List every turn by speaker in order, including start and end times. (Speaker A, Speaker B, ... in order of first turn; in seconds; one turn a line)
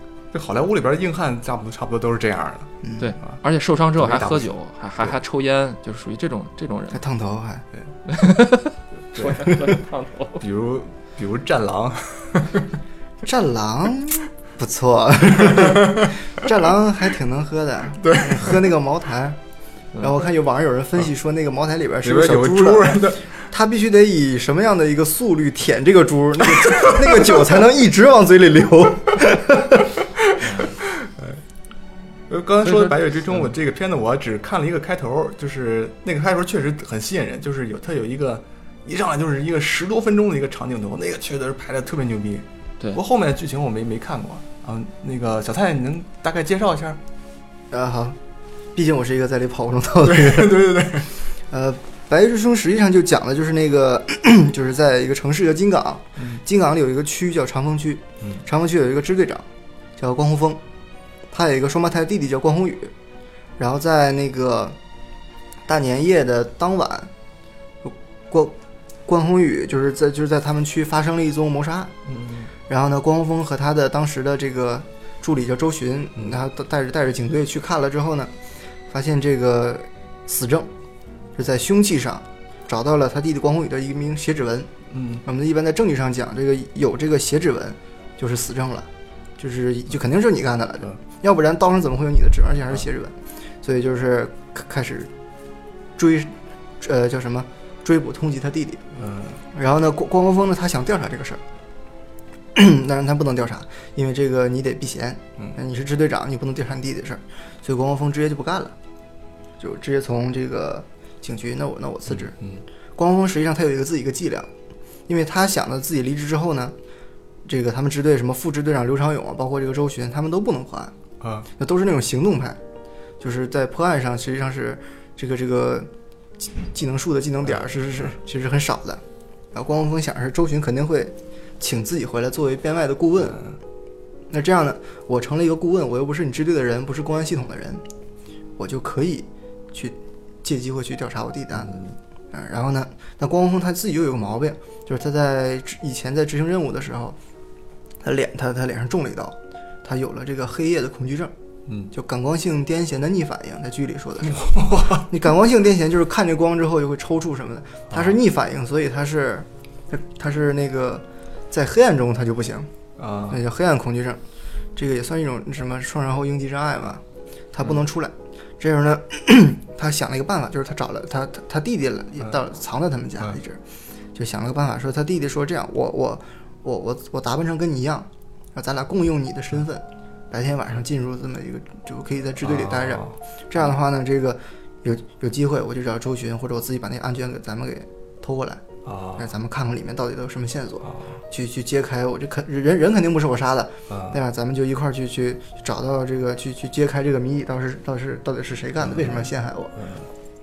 Speaker A: 0.3-3.4
Speaker B: 2.8-3.1
Speaker C: 3.0-7.0
Speaker A: 4.0-4.5
Speaker B: 6.9-7.7
Speaker C: 8.1-10.4
Speaker A: 9.1-9.6
Speaker A: 10.4-12.7
Speaker B: 13.2-19.4
Speaker A: 15.3-16.1
Speaker A: 18.0-18.7
Speaker B: 20.0-30.0
Speaker A: 22.0-23.3
Speaker A: 26.4-27.4
Speaker A: 30.1-31.4
Speaker C: 30.4-30.7
Speaker A: 32.3-47.0
Speaker C: 32.6-33.1
Speaker B: 47.7-48.2
Speaker B: 48.7-50.8
Speaker A: 50.0-51.1
Speaker B: 51.5-59.4
Speaker A: 56.2-56.4
Speaker B: 60.0-60.6
Speaker B: 61.3-62.9
Speaker B: 63.6-64.8
Speaker B: 65.7-67.1
Speaker B: 67.8-68.5
Speaker B: 69.1-71.9
Speaker A: 72.0-72.5
Speaker B: 72.7-78.3
Speaker B: 78.9-80.7
Speaker B: 81.3-84.7
Speaker A: 84.9-85.2
Speaker B: 85.2-88.9
Speaker B: 89.4-95.1
Speaker B: 96.0-98.8
Speaker A: 98.9-99.4
Speaker B: 99.5-101.4
Speaker B: 102.5-108.7
Speaker B: 109.6-112.3
Speaker A: 112.1-112.6
Speaker B: 113.0-114.5
Speaker B: 115.1-116.7
Speaker B: 117.4-120.9
Speaker A: 121.2-121.5
Speaker B: 121.6-122.6
Speaker B: 123.2-129.0
Speaker A: 127.4-128.2
Speaker B: 129.5-133.4
Speaker A: 133.2-133.6
Speaker B: 134.3-137.8
Speaker B: 138.6-147.2
Speaker A: 141.6-141.9
Speaker B: 148.0-151.3
Speaker A: 151.7-151.9
Speaker B: 151.9-162.7
Speaker A: 154.2-155.1
Speaker A: 157.9-158.2
Speaker A: 163.0-163.4
Speaker B: 163.3-164.2
Speaker B: 164.8-173.6
Speaker B: 174.1-188.7
Speaker A: 182.4-183.1
Speaker A: 188.8-189.3
Speaker B: 189.2-199.8
Speaker A: 190.8-191.2
Speaker A: 193.9-194.2
Speaker A: 198.8-200.1